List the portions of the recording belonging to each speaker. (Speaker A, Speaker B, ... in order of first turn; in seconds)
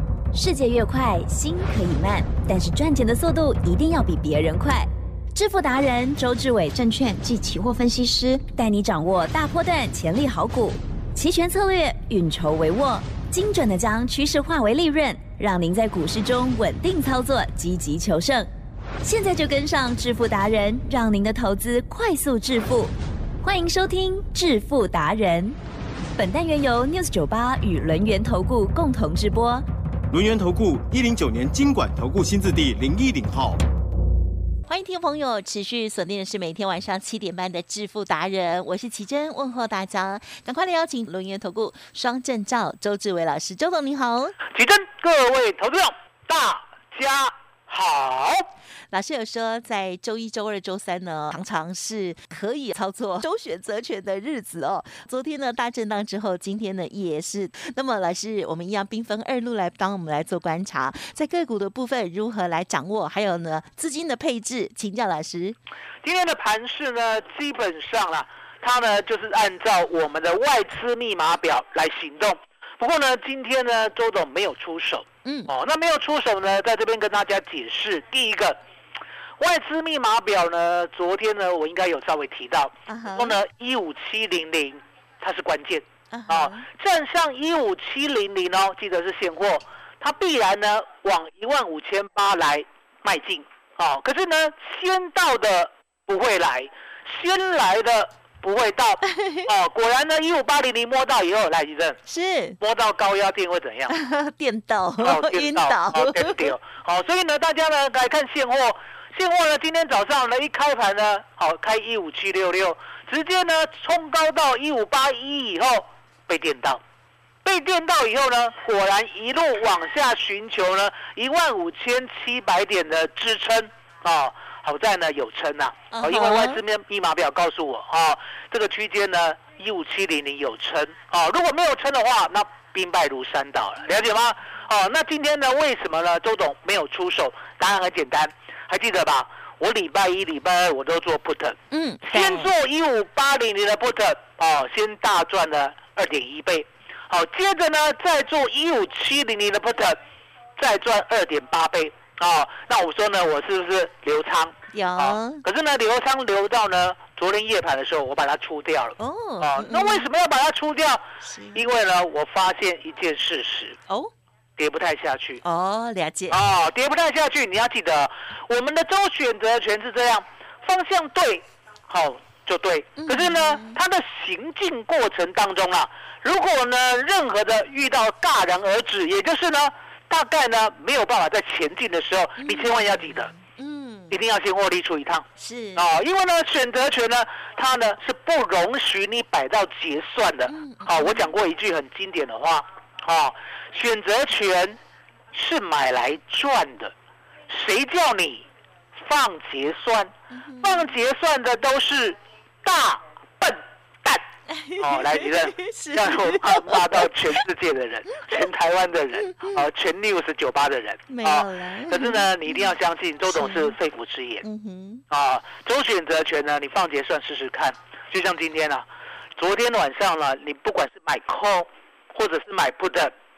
Speaker A: 0.3-18.5, 19.0-25.6, 26.1-29.6
Speaker B: 30.1-33.5
Speaker C: 34.7-44.4, 48.9-65.6, 75.2-75.5, 82.9-83.4, 86.1-86.7, 99.0-99.5, 102.0-102.6, 103.9-106.5, 125.9-126.6, 141.7-142.5, 154.7-155.4, 159.0-160.1, 161.2-161.6, 165.4-166.4, 173.0-173.8, 182.4-184.2, 185.4-185.8, 190.5-191.3, 200.3-200.9, 204.5-207.1, 209.2-209.7, 211.1-212.7, 213.3-213.7, 214.4-215.0
Speaker D: 44.5-48.4, 66.0-78.6, 79.4-102.0, 102.6-103.9, 105.0-116.8, 117.4-150.0, 150.6-163.8, 164.6-165.4, 166.3-183.3, 184.1-185.2, 185.8-194.8, 195.3-196.9, 197.5-198.4, 199.0-200.1, 200.6-204.2, 204.8-214.4, 215.1-218.8, 219.4-223.1